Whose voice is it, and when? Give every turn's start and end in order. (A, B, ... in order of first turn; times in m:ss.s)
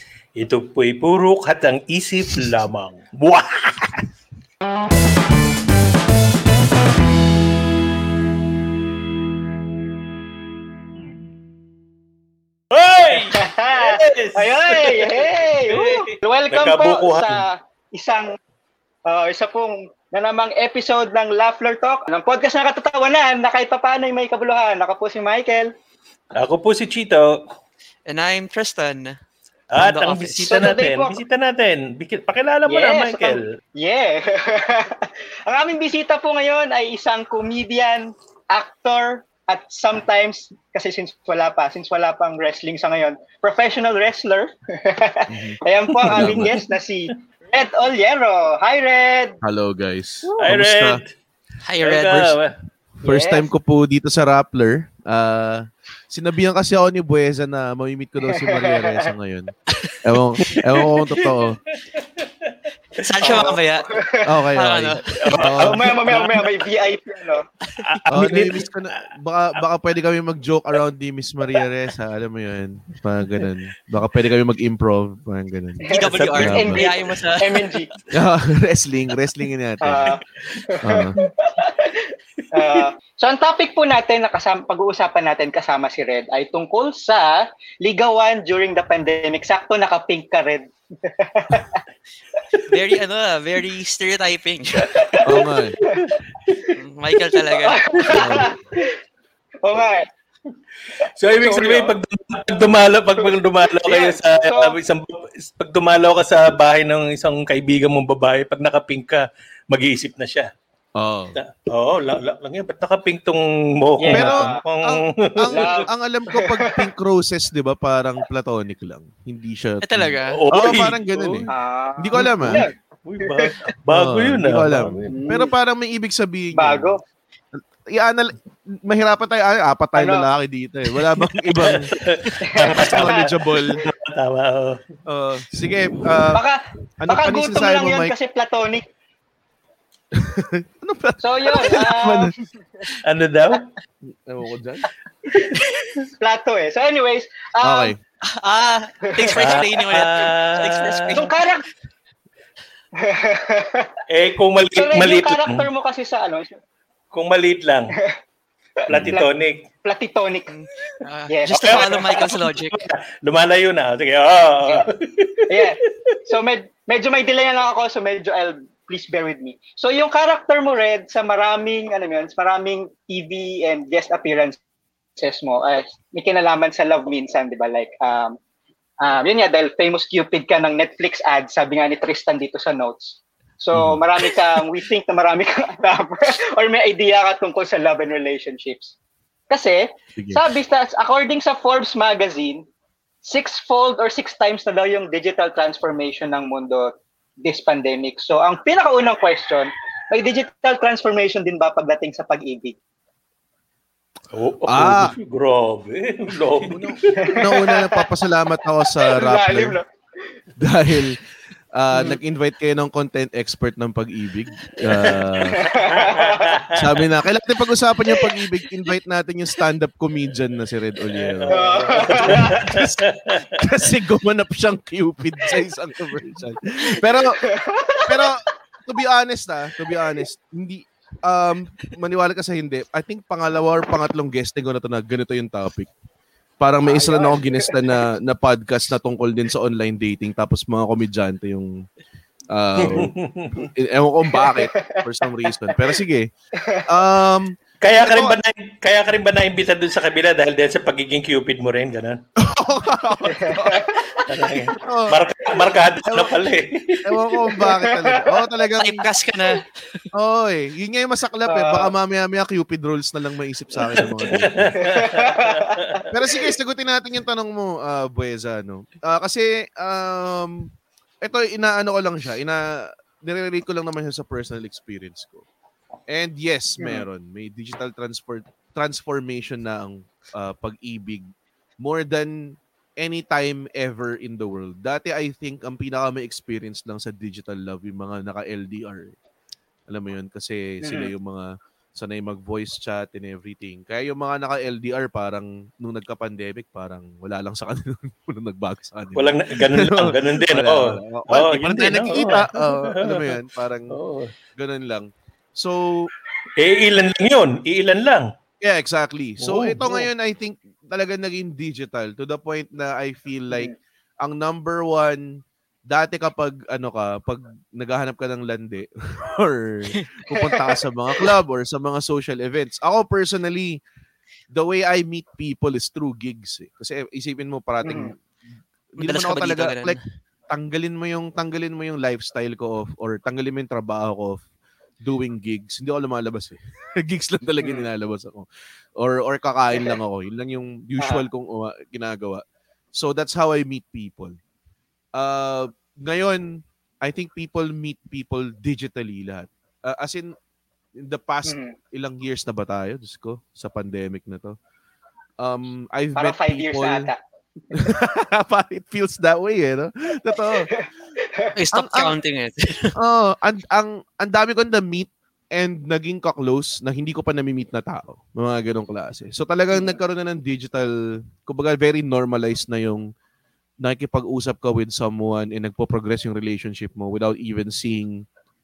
0:00.4-0:04.1 A
0:12.7-0:17.4 A
0:13.1-0:18.3 B
0:19.1-0:25.7 B
0:26.4-0:27.4 A
0:28.1-0:29.2 C
0:29.7-0:33.4 A
0:29.8-0:30.5 C
0:30.5-0:31.2 B
0:32.7-0:49.4 B
0:45.3-0:45.6 D
0:46.0-0:46.6 A
0:46.1-0:46.5 D
0:49.4-0:51.0 D
0:50.4-0:51.1 A
0:51.6-0:52.4 C
0:51.8-0:52.5 A
0:53.0-0:53.5 B
0:53.0-0:59.5 D
0:58.3-0:59.1 B
0:59.8-1:00.0 C
1:00.0-1:01.6 D
1:00.5-1:01.4 A
1:02.0-1:02.5 A
1:03.0-1:03.9 C
1:03.2-1:04.3 B
1:04.2-1:06.0 D
1:04.6-1:05.2 C
1:05.2-1:06.5 A
1:05.6-1:07.4 B
1:07.8-1:08.7 A
1:08.1-1:16.8 D
1:15.9-1:17.9 B
1:15.9-1:17.8 C
1:16.1-1:16.6 A
1:18.1-1:20.1 D
1:19.8-1:31.8 B
1:20.8-1:21.2 D
1:32.7-1:35.0 C
1:35.0-1:36.2 B
1:35.2-1:35.8 D
1:36.8-1:37.8 C
1:37.5-1:38.9 B
1:38.1-1:38.4 A
1:38.1-1:38.6 D
1:39.6-1:40.1 B
1:41.2-1:50.5 A
1:41.4-1:42.0 B
1:43.2-1:44.8 B
1:51.0-1:51.4 D
1:51.4-1:55.9 A
1:54.0-1:54.6 B
1:54.1-2:02.6 D
1:55.5-1:56.5 B
1:59.8-2:00.4 C
2:00.3-2:01.5 A
2:01.5-2:02.7 B
2:02.2-2:05.2 A
2:03.2-2:03.5 B
2:03.9-2:06.9 D
2:05.1-2:05.5 B
2:06.6-2:07.0 B
2:07.6-2:11.9 D
2:10.0-2:10.3 B
2:11.4-2:14.8 A
2:12.4-2:13.3 B
2:12.6-2:13.9 D
2:15.1-2:16.4 D
2:16.3-2:18.9 B
2:17.0-2:18.1 D
2:20.1-2:22.4 D
2:21.2-2:22.3 B
2:23.0-2:23.7 A
2:24.1-2:24.9 D
2:26.2-2:27.9 B
2:27.6-2:28.0 D
2:28.3-2:31.3 C
2:29.1-2:29.7 B
2:29.4-2:31.2 A
2:31.1-2:31.6 B
2:33.0-2:33.9 B
2:34.1-2:35.7 A
2:34.7-2:36.6 B
2:37.1-2:37.9 A
2:38.8-2:39.3 B
2:38.9-2:39.6 A
2:39.8-2:40.5 B
2:40.5-2:42.9 C
2:41.3-2:42.3 B
2:41.5-2:46.1 A
2:45.5-2:54.6 B
2:55.2-2:58.4 B
2:59.0-3:08.9 B
3:03.7-3:04.0 D
3:09.5-3:12.6 B
3:10.2-3:10.4 D
3:13.2-3:16.9 B
3:17.4-3:22.8 B
3:24.3-3:27.4 A
3:24.7-3:25.2 D
3:26.6-3:29.8 D
3:27.1-3:28.1 B
3:29.0-3:29.8 B
3:30.6-3:31.2 D
3:31.8-3:35.6 D
3:34.9-3:37.0 A
3:35.5-3:36.6 B
3:36.8-3:43.1 D
3:41.1-3:43.6 A
3:41.5-3:42.6 B
3:43.6-3:47.4 D
3:47.4-3:48.4 B
3:48.1-3:55.9 D
3:56.6-4:01.7 D
3:56.9-3:58.0 B
4:02.5-4:06.3 D
4:02.8-4:03.7 A
4:04.3-4:05.8 B
4:06.6-4:06.8 B
4:06.9-4:08.4 D
4:07.8-4:12.2 A
4:12.4-4:14.0 D
4:13.2-4:14.2 B
4:14.3-4:17.2 A
4:14.7-4:15.2 D
4:15.7-4:16.4 D
4:17.0-4:19.0 D
4:17.6-4:18.2 B
4:18.8-4:19.6 C
4:20.2-4:24.8 D
4:21.5-4:21.9 B
4:24.0-4:26.0 A
4:24.8-4:26.0 B
4:26.1-4:30.7 D
4:31.2-4:35.4 D
4:36.1-4:41.3 D
4:36.8-4:37.0 B
4:41.8-4:49.2 D
4:49.9-5:04.0 D
4:50.8-4:51.1 B
4:59.2-5:03.4 A
5:03.9-5:04.3 A
5:04.6-5:06.1 D
5:06.6-5:08.3 A
5:08.6-5:23.8 D
5:09.4-5:10.1 A
5:20.3-5:20.8 B
5:24.5-5:28.1 D
5:27.8-5:28.1 B
5:29.0-5:30.0 D
5:29.0-5:30.0 C
5:30.5-5:34.4 D
5:35.0-5:42.4 D
5:37.6-5:37.9 B
5:41.0-5:41.2 B
5:42.9-5:44.4 D
5:45.2-5:50.4 D
5:51.0-5:54.6 D
5:51.4-5:51.8 B
5:55.4-5:57.1 D
5:56.2-5:57.2 B
5:57.7-6:00.7 D
6:00.4-6:01.5 B
6:01.6-6:02.9 C
6:01.7-6:02.1 D
6:03.0-6:13.1 D
6:09.7-6:10.0 B
6:13.8-6:18.2 D